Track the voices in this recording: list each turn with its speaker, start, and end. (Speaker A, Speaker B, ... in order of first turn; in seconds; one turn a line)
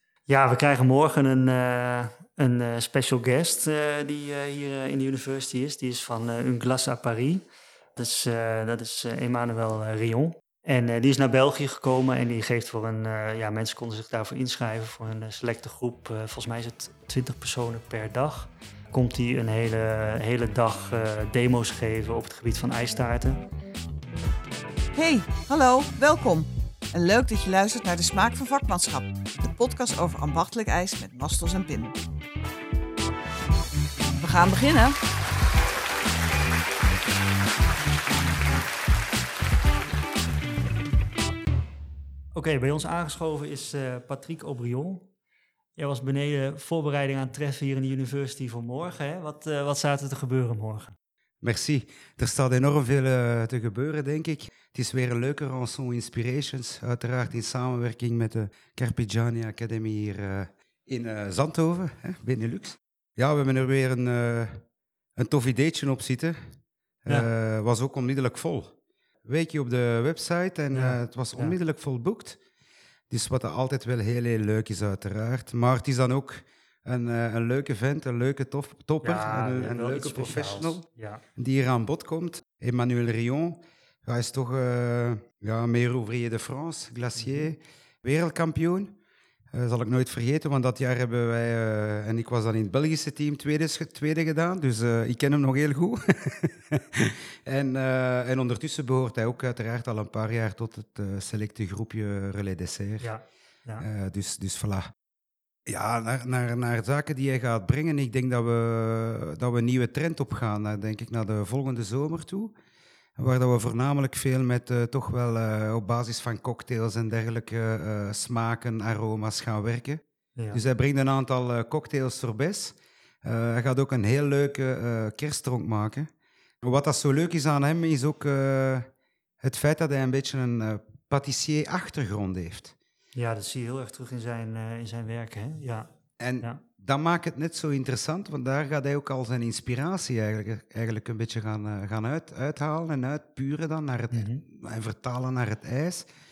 Speaker A: 0.3-7.4
Speaker A: 8.0-23.4
Speaker B: 24.9-31.9
Speaker B: 34.2-35.0
Speaker A: 42.3-45.1
Speaker A: 45.8-50.9
Speaker C: 51.4-64.6
Speaker C: 65.2-66.3
Speaker C: 67.0-68.7
Speaker C: 69.2-72.4
Speaker A: 70.7-71.6
Speaker C: 73.1-80.8
Speaker A: 79.0-81.2
Speaker C: 81.4-88.9
Speaker A: 87.2-87.5
Speaker C: 89.5-103.1
Speaker A: 103.0-103.8
Speaker C: 103.8-104.9
Speaker C: 105.7-112.5
Speaker C: 113.2-120.0
Speaker A: 120.3-120.6
Speaker C: 120.5-126.1
Speaker C: 126.6-128.8
Speaker C: 129.4-132.7
Speaker A: 133.1-135.9
Speaker C: 136.2-146.0
Speaker A: 144.1-144.4